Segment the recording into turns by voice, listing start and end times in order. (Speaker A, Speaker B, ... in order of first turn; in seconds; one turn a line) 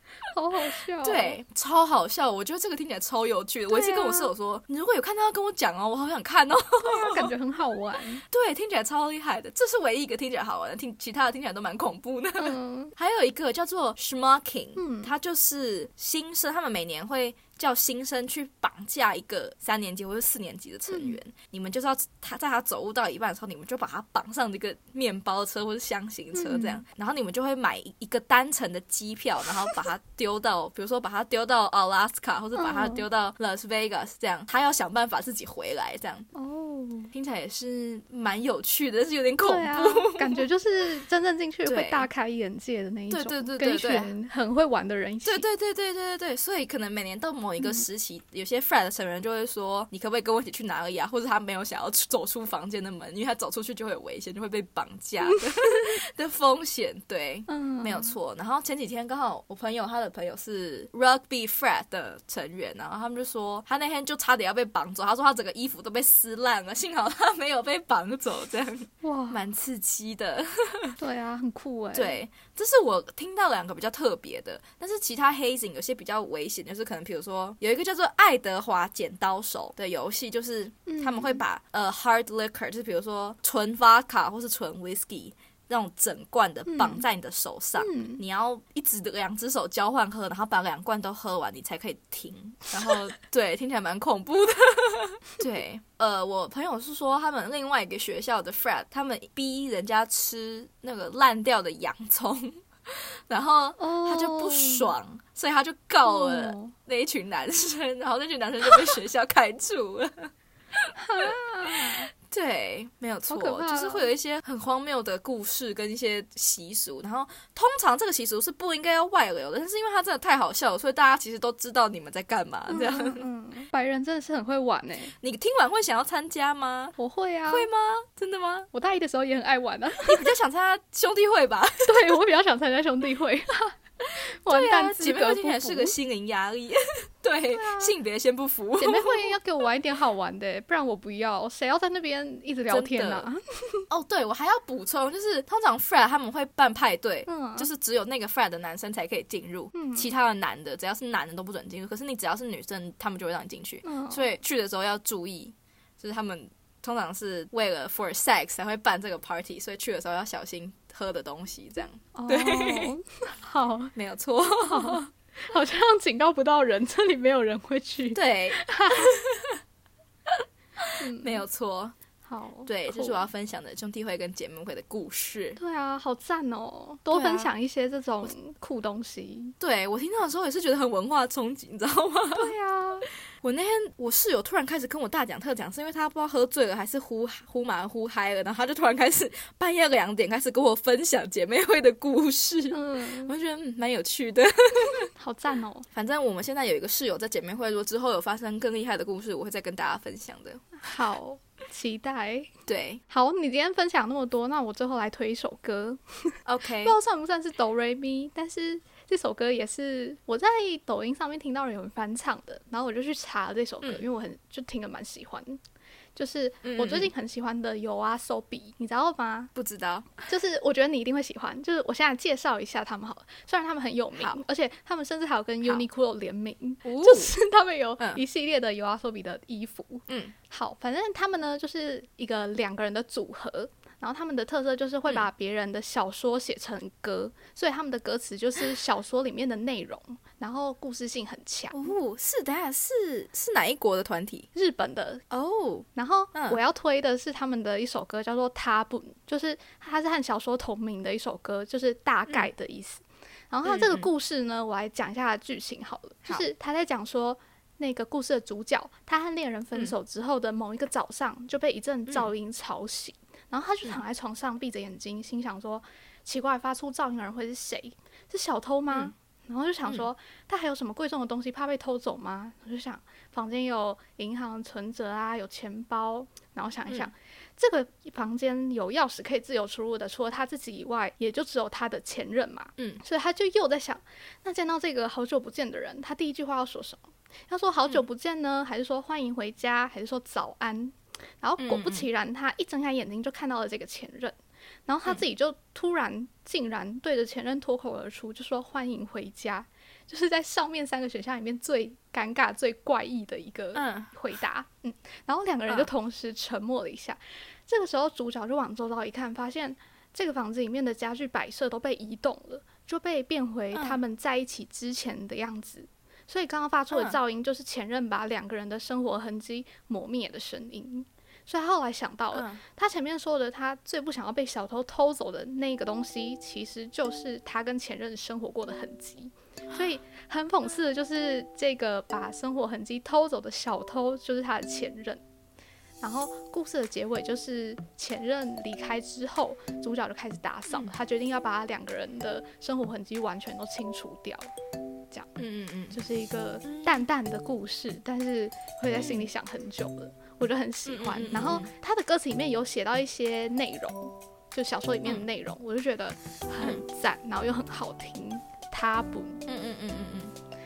Speaker A: 0.3-1.4
Speaker B: 1.0-7.3
Speaker A: 3.7-4.3
Speaker A: 6.8-8.2
Speaker B: 8.3-36.3
Speaker A: 12.4-12.9
Speaker A: 14.8-15.1
Speaker A: 20.9-21.2
Speaker A: 26.3-26.8
Speaker A: 32.6-33.0
Speaker A: 36.3-37.1
Speaker B: 37.1-40.4
Speaker A: 39.4-45.5
Speaker B: 41.7-42.1
Speaker B: 43.1-44.1
Speaker B: 45.2-71.0
Speaker A: 57.5-58.1
Speaker A: 69.0-69.4
Speaker A: 71.0-72.2
Speaker B: 71.9-123.2
Speaker A: 80.9-81.4
Speaker A: 86.7-87.0
Speaker A: 87.8-88.2
Speaker A: 103.8-104.9
Speaker A: 106.0-106.7
Speaker A: 111.0-112.1
Speaker A: 113.3-114.1
Speaker A: 122.7-125.1
Speaker B: 125.2-127.0
Speaker A: 127.0-127.7
Speaker B: 127.5-128.7
Speaker A: 128.7-130.3
Speaker B: 130.0-132.2
Speaker A: 131.8-136.0
Speaker B: 134.5-139.4
Speaker A: 137.5-138.0
Speaker A: 138.8-143.9
Speaker B: 142.7-143.3
Speaker B: 143.9-162.9
Speaker A: 147.3-147.7
Speaker A: 149.7-150.1
Speaker A: 153.8-154.3
Speaker A: 162.2-163.9
Speaker B: 163.9-165.1
Speaker A: 164.7-169.2
Speaker B: 168.1-169.6
Speaker B: 170.3-171.9
Speaker A: 171.0-171.4
Speaker A: 172.3-173.3
Speaker B: 172.7-175.6
Speaker A: 175.6-179.6
Speaker B: 177.1-177.5
Speaker B: 179.6-182.5
Speaker A: 182.4-183.1
Speaker B: 183.4-195.1
Speaker A: 192.7-193.3
Speaker A: 195.1-195.9
Speaker B: 195.9-200.8
Speaker A: 200.8-202.5
Speaker B: 202.7-203.0
Speaker A: 203.1-215.6
Speaker B: 206.5-207.0
Speaker A: 216.2-219.5
Speaker B: 216.6-217.1
Speaker B: 219.6-220.2
Speaker A: 220.2-241.8
Speaker B: 224.2-224.4
Speaker B: 226.8-227.3
Speaker B: 230.1-230.3
Speaker B: 241.7-244.5
Speaker A: 244.5-245.2
Speaker B: 245.3-246.6
Speaker A: 246.0-335.2
Speaker B: 253.7-254.1
Speaker B: 291.6-292.1
Speaker B: 303.7-304.1
Speaker B: 313.7-314.0
Speaker B: 316.9-317.2
Speaker B: 322.3-322.6
Speaker A: 336.0-344.5
Speaker A: 345.1-345.4
Speaker B: 345.4-346.0
Speaker A: 345.9-359.4
Speaker B: 346.7-347.0
Speaker B: 348.9-349.3
Speaker B: 350.9-351.7
Speaker B: 359.5-360.3